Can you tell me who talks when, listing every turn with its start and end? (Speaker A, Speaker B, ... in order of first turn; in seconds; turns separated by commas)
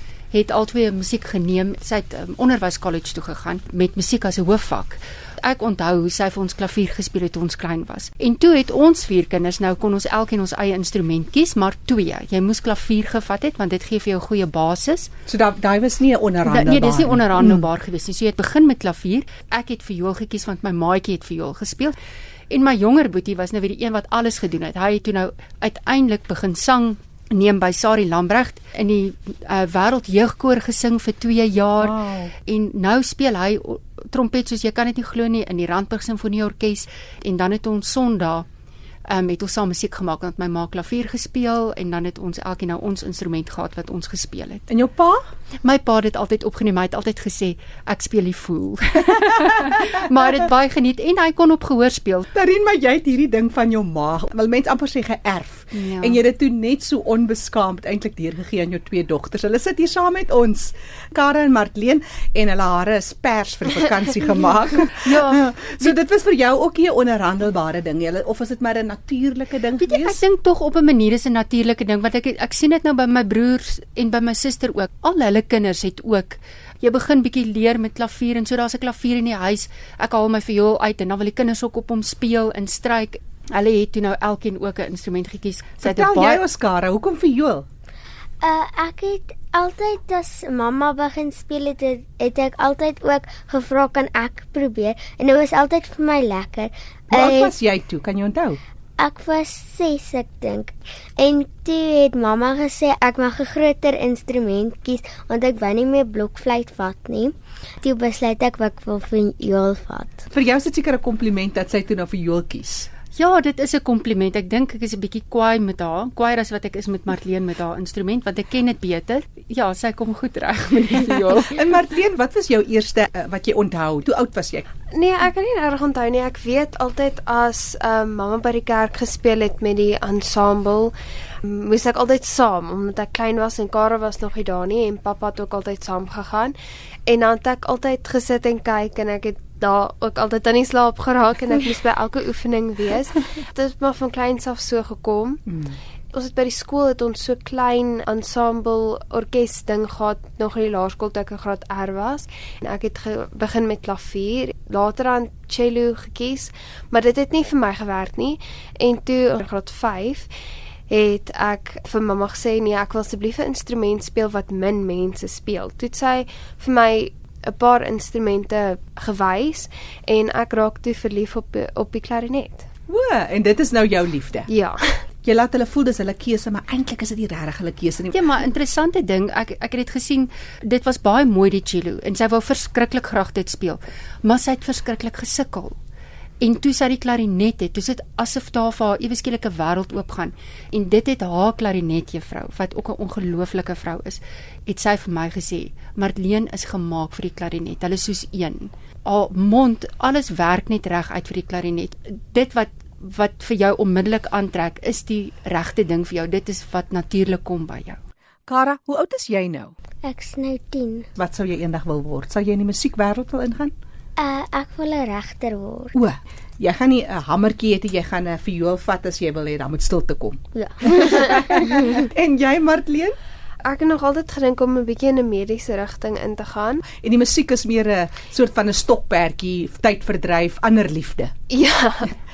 Speaker A: 0.3-15.1, Speaker B: 15.3-17.7, Speaker A: 16.4-21.9, Speaker A: 22.5-38.5, Speaker B: 31.8-32.3, Speaker A: 39.0-44.7, Speaker B: 44.7-45.2, Speaker A: 45.6-52.3, Speaker B: 52.3-70.2, Speaker A: 55.7-56.2, Speaker A: 65.0-65.9, Speaker A: 69.8-86.4, Speaker B: 85.8-87.6, Speaker C: 88.4-97.5, Speaker B: 97.1-98.6, Speaker C: 99.0-110.3, Speaker B: 110.3-112.9, Speaker A: 113.1-121.5, Speaker B: 121.5-124.6, Speaker D: 124.9-136.6, Speaker D: 137.1-145.4, Speaker D: 146.1-160.3, Speaker D: 160.9-172.7, Speaker B: 172.9-174.5, Speaker D: 174.5-175.0, Speaker B: 175.2-178.2, Speaker A: 178.1-185.8, Speaker A: 186.4-208.0, Speaker B: 208.5-209.7, Speaker C: 210.0-211.1, Speaker B: 211.2-213.7, Speaker C: 214.2-215.9, Speaker B: 215.9-223.2, Speaker C: 220.5-221.5, Speaker D: 223.6-226.8, Speaker B: 226.8-231.3, Speaker D: 231.5-232.1